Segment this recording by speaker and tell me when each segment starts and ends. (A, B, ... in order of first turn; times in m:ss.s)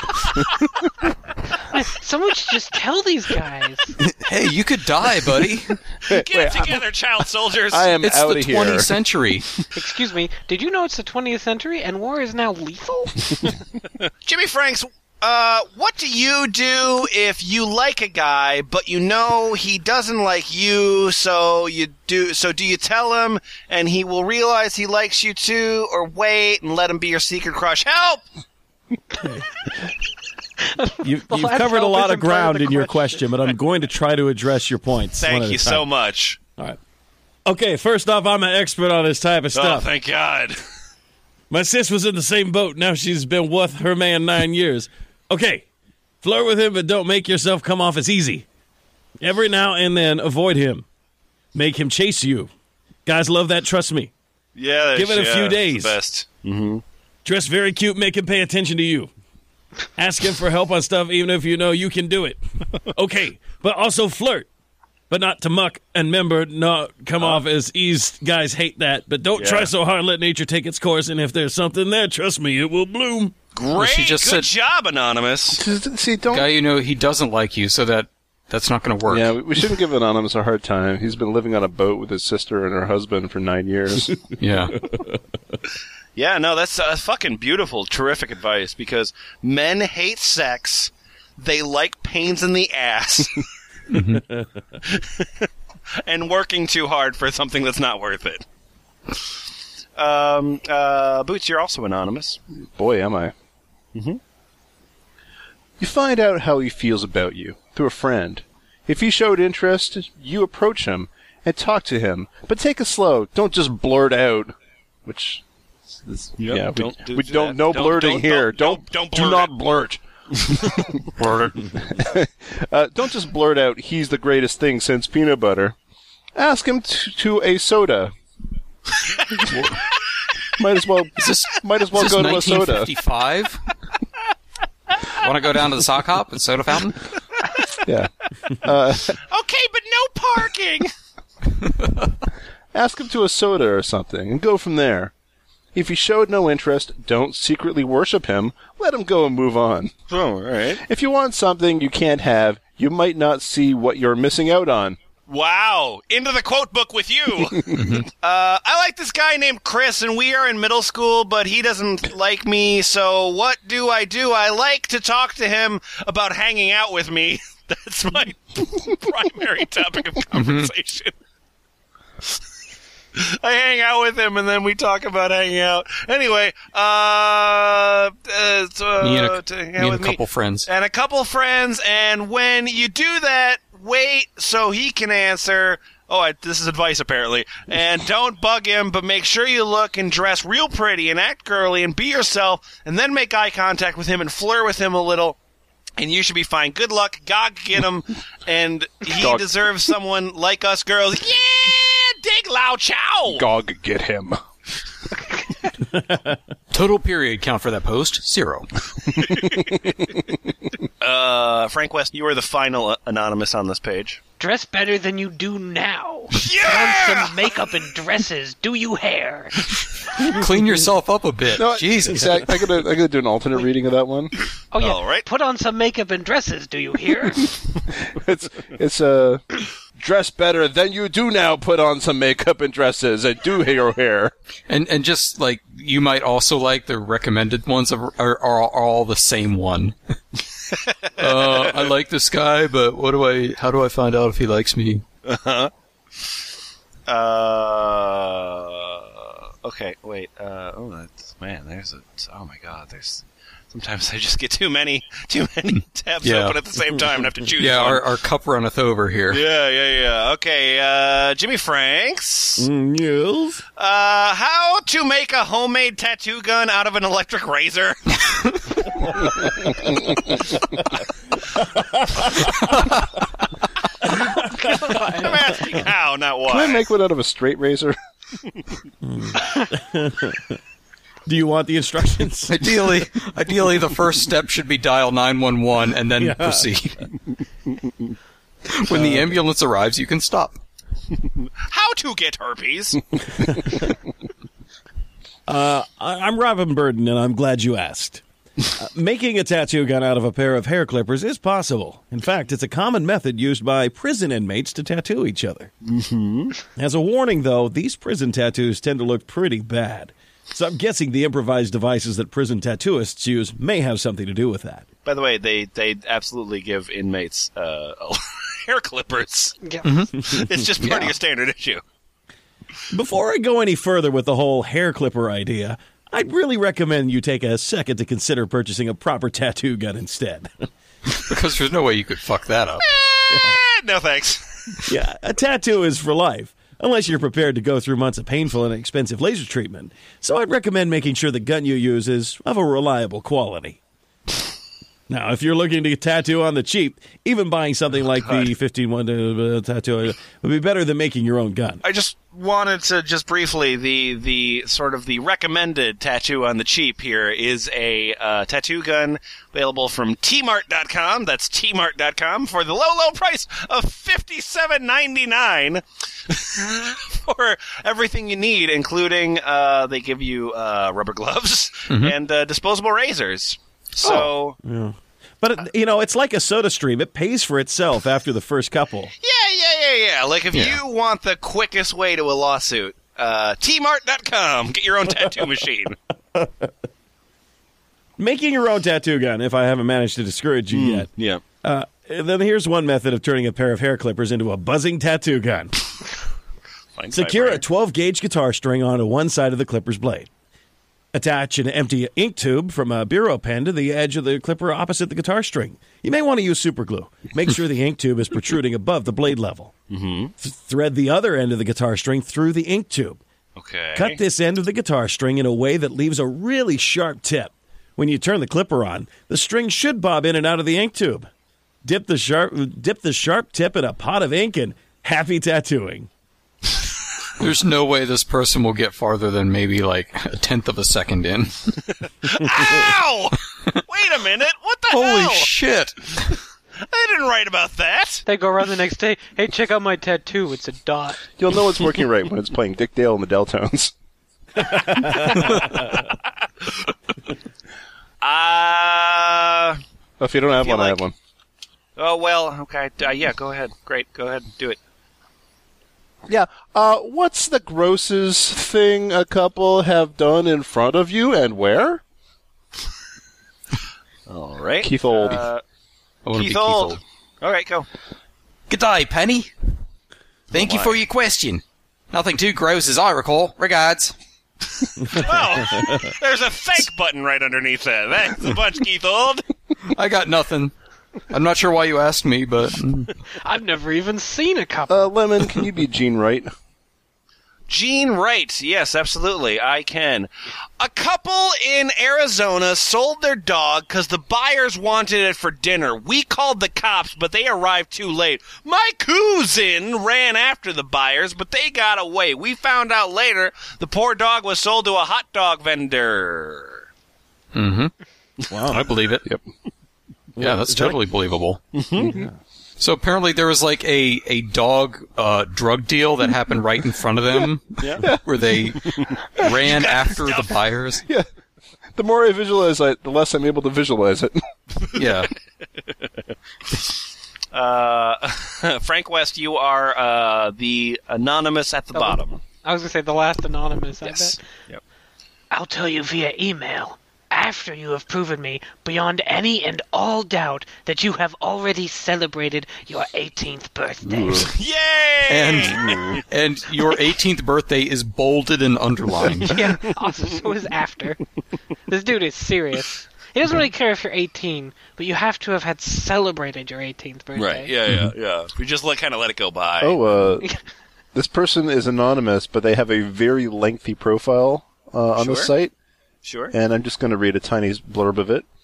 0:01.7-0:04.0 A
0:04.0-0:05.8 B
0:06.1-0:06.8 C
0:06.1-0:07.9 D
0:07.7-0:08.9 C
0:08.0-0:09.5 B
0:09.7-0:13.4 A
0:14.2-0:28.2 D
0:30.6-0:33.5 A
0:31.0-0:35.8 E
0:35.2-0:36.4 D
0:37.4-0:39.9 E
0:39.5-0:40.6 D
0:41.5-0:45.6 E
0:46.2-0:48.4 E
0:49.2-0:50.8 E
0:51.5-0:52.5 E
0:53.0-0:54.1 E
0:54.5-0:56.8 D
0:54.9-0:56.0 E
0:57.2-0:59.1 E
1:00.0-1:04.5 E
1:05.1-1:13.3 E
1:09.4-1:09.7 D
1:13.5-1:15.6 D
1:13.7-1:14.5 B
1:15.5-1:16.5 C
1:16.3-1:19.4 B
1:19.1-1:24.2 C
1:24.4-1:24.8 B
1:24.8-1:25.2 E
1:26.1-1:33.4 D
1:33.9-1:34.2 B
1:34.1-1:34.6 E
1:34.8-1:35.5 D
1:36.0-1:38.4 D
1:40.0-1:42.4 D
1:42.6-1:43.3 C
1:43.9-1:44.2 D
1:45.8-1:55.4 C
1:56.0-2:05.8 C
1:56.3-1:59.5 D
2:01.2-2:01.5 B
2:06.4-2:08.1 C
2:09.3-2:09.7 C
2:10.6-2:12.9 C
2:11.2-2:13.6 B
2:15.2-2:17.1 B
2:17.8-2:19.2 C
2:19.2-2:20.9 D
2:22.7-2:25.1 C
2:25.7-2:29.9 C
2:30.1-2:30.8 D
2:30.8-2:35.0 C
2:35.3-2:51.1 D
2:37.7-2:38.1 B
2:50.3-2:50.7 B
2:53.1-3:15.4 D
2:59.0-3:00.7 B
3:16.0-3:23.4 D
3:19.1-3:19.5 C
3:23.3-3:24.4 C
3:25.9-3:26.4 E
3:26.7-3:28.7 B
3:29.2-3:30.2 C
3:31.0-3:34.2 D
3:34.4-3:39.7 A
3:36.3-3:37.4 D
3:40.2-3:42.5 B
3:41.6-3:44.3 C
3:44.7-3:47.6 A
3:44.8-3:45.2 D
3:48.0-3:54.3 C
3:54.7-4:00.0 B
4:00.7-4:01.7 D
4:01.2-4:05.0 B
4:05.2-4:05.7 D
4:07.1-4:18.0 D
4:16.2-4:16.6 B
4:17.6-4:19.4 B
4:19.3-4:22.7 D
4:22.6-4:23.6 E
4:23.8-4:28.2 D
4:31.6-4:32.4 E
4:34.6-4:36.8 D
4:34.6-4:35.3 A
4:36.5-4:38.0 C
4:39.0-4:40.6 E
4:41.2-4:42.6 E
4:42.5-4:47.0 B
4:46.2-4:46.7 E
4:48.6-4:50.6 B
4:48.9-4:49.4 E
4:51.6-4:53.5 D
4:55.5-4:58.2 E
4:58.8-5:05.7 E
5:05.8-5:06.6 D
5:06.8-5:14.8 E
5:15.0-5:19.6 D
5:19.6-5:19.9 A
5:19.8-5:20.1 B
5:20.2-5:21.8 D
5:20.8-5:21.1 B
5:22.9-5:30.6 E
5:31.1-5:32.8 B
5:32.8-5:34.8 D
5:33.3-5:33.6 E
5:34.8-5:43.8 E
5:45.1-5:51.8 E
5:51.8-6:14.6 D
6:11.9-6:12.1 B
6:14.0-6:19.1 E
6:19.2-6:26.0 D
6:20.5-6:20.8 B
6:26.3-6:26.7 E
6:28.2-6:31.1 E
6:30.7-6:31.4 D
6:31.6-6:35.7 E
6:36.9-6:37.6 D
6:37.1-6:40.3 E
6:41.1-6:49.7 E
6:49.9-6:50.3 D
6:50.4-6:53.2 E
6:53.6-6:54.2 D
6:53.9-7:01.3 E
7:01.8-7:06.1 E
7:07.4-7:11.8 B
7:12.2-7:15.5 D
7:14.9-7:16.4 B
7:16.8-7:18.2 D
7:18.2-7:21.2 A
7:21.4-7:23.9 C
7:24.7-7:25.6 E
7:28.2-7:29.8 D
7:30.2-7:31.1 C
7:30.6-7:31.0 D
7:32.0-7:34.8 D
7:36.3-7:42.0 C
7:44.3-7:45.6 D
7:44.8-7:45.4 C
7:46.2-7:47.0 B
7:46.3-7:47.9 D
7:48.7-7:49.5 B
7:50.5-7:51.0 D
7:50.5-7:54.1 B
7:55.0-7:59.4 D
7:59.9-8:00.7 B
8:01.3-8:03.1 B
8:03.4-8:05.1 A
8:04.9-8:06.5 C
8:07.7-8:26.9 D
8:27.5-8:27.9 B
8:28.5-8:28.8 E
8:28.7-8:29.2 B
8:30.4-8:31.0 E
8:30.4-8:31.6 B
8:31.7-8:32.2 D
8:32.0-8:32.3 E
8:32.8-8:41.0 B
8:37.8-8:38.0 D
8:38.9-8:40.4 D
8:42.0-8:44.4 C
8:44.9-8:45.3 B
8:47.5-8:52.4 D
8:51.9-8:54.4 A
8:55.5-9:04.5 A
9:04.1-9:04.5 C
9:04.4-9:06.2 D
9:05.3-9:09.6 B
9:05.8-9:06.1 C
9:09.5-9:11.2 A
9:11.9-9:17.7 A
9:17.4-9:20.0 D
9:19.8-9:20.4 C
9:21.1-9:25.7 C
9:25.2-9:25.5 D
9:26.2-9:26.5 D
9:26.5-9:28.4 C